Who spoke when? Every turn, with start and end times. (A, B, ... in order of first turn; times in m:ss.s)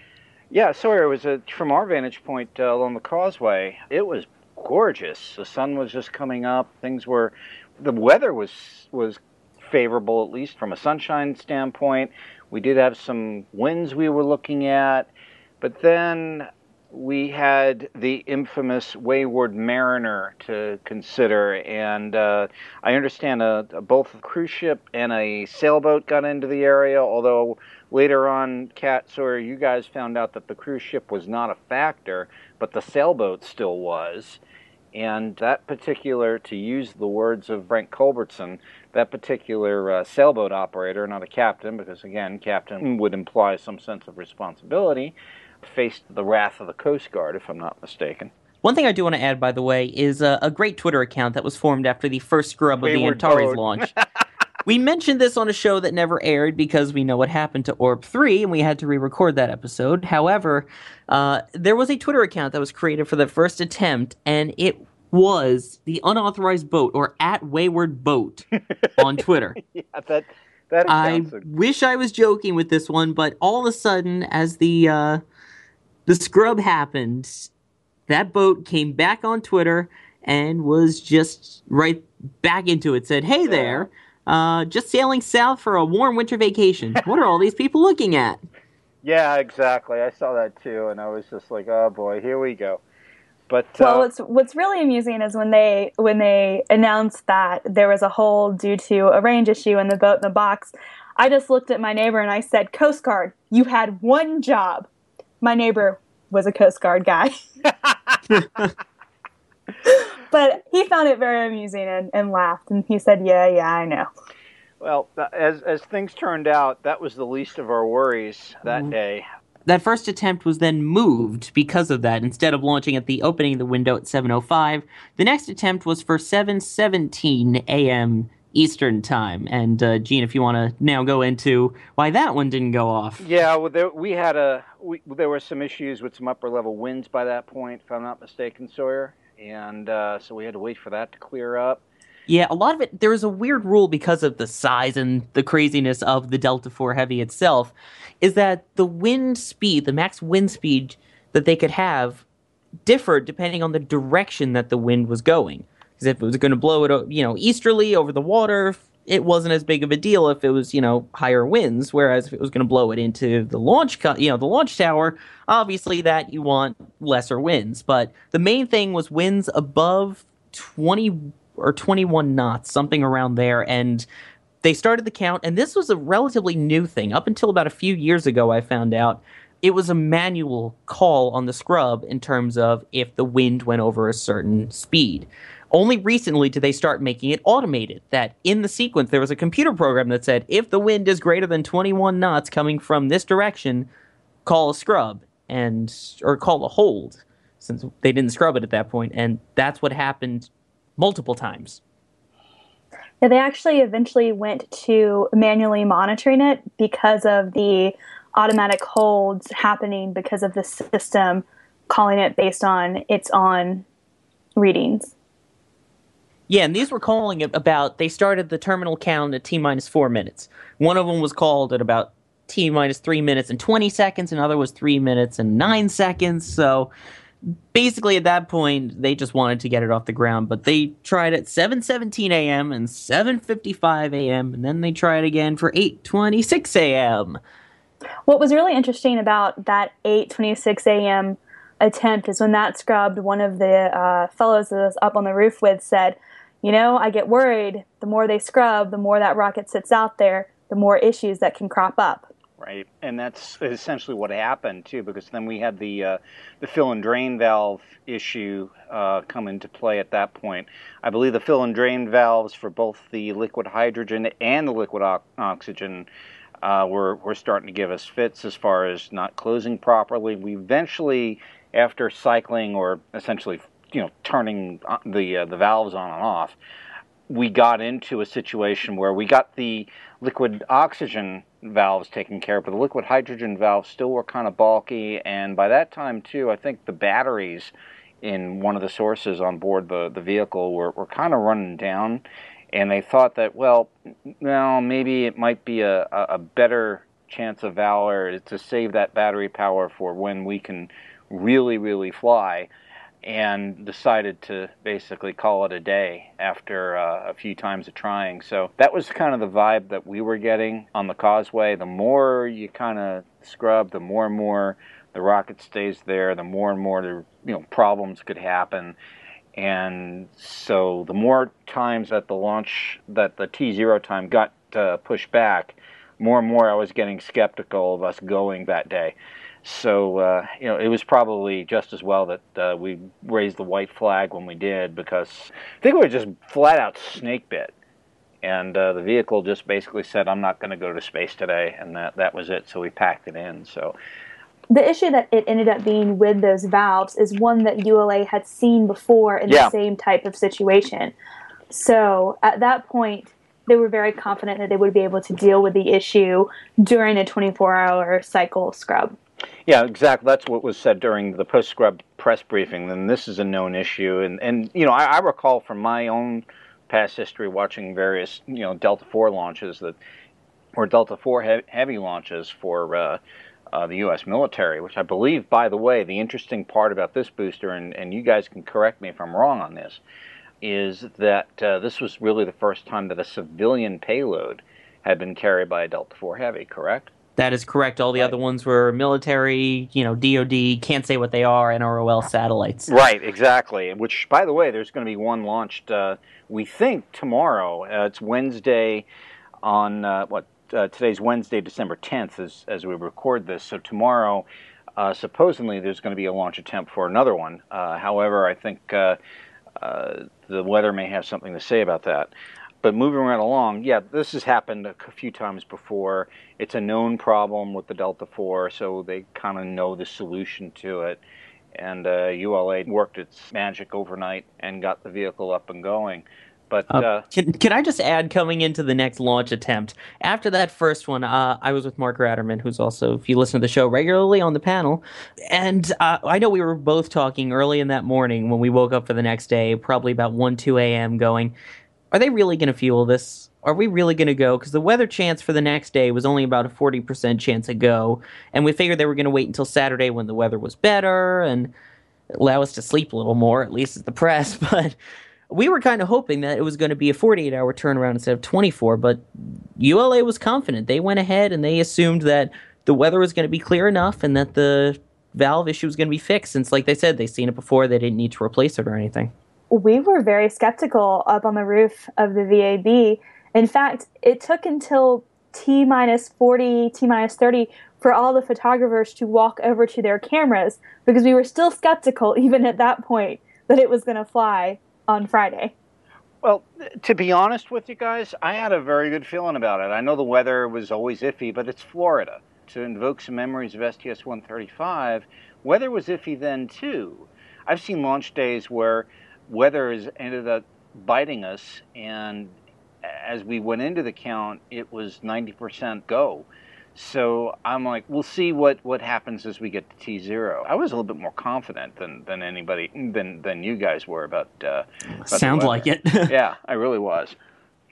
0:00.5-0:34.4 A
0:34.9-0:48.3 A
0:48.6-0:53.9 B
0:52.8-0:54.0 A
0:54.7-1:08.5 B
1:08.8-1:09.0 A
1:09.0-1:09.6 B
1:09.6-1:11.4 A
1:10.9-1:15.2 B
1:16.1-1:17.5 B
1:18.1-1:28.4 B
1:23.4-1:23.9 A
1:29.0-1:32.8 A
1:33.5-1:34.1 A
1:33.8-1:44.9 C
1:45.4-1:47.3 C
1:48.3-1:48.7 B
1:49.9-1:54.1 C
1:54.8-1:59.3 A
1:59.7-2:13.3 B
2:13.2-2:21.8 A
2:22.3-2:32.2 B
2:32.9-2:54.1 B
2:54.6-3:13.9 B
3:14.5-3:21.8 B
3:23.2-3:33.8 C
3:34.6-3:35.1 C
3:36.5-3:46.9 B
3:47.7-3:57.4 B
3:58.3-4:12.3 C
4:12.6-4:26.1 A
4:26.6-4:36.6 A
4:37.3-5:02.7 A
5:03.2-5:19.0 A
5:19.6-5:37.7 A
5:38.4-5:44.0 A
5:44.7-5:51.2 C
5:49.5-5:49.7 A
5:51.7-5:59.2 C
5:59.7-6:10.0 A
6:10.8-6:13.2 A
6:13.7-6:20.0 A
6:20.6-6:27.1 A
6:27.4-6:32.9 B
6:32.9-6:39.1 A
6:39.6-6:49.2 A
6:49.8-7:01.2 A
7:01.8-7:07.2 A
7:06.9-7:21.5 B
7:22.1-7:31.7 B
7:32.3-7:35.0 B
7:35.5-7:49.3 B
7:49.7-8:05.7 C
8:06.4-8:37.4 A
8:35.2-8:36.4 B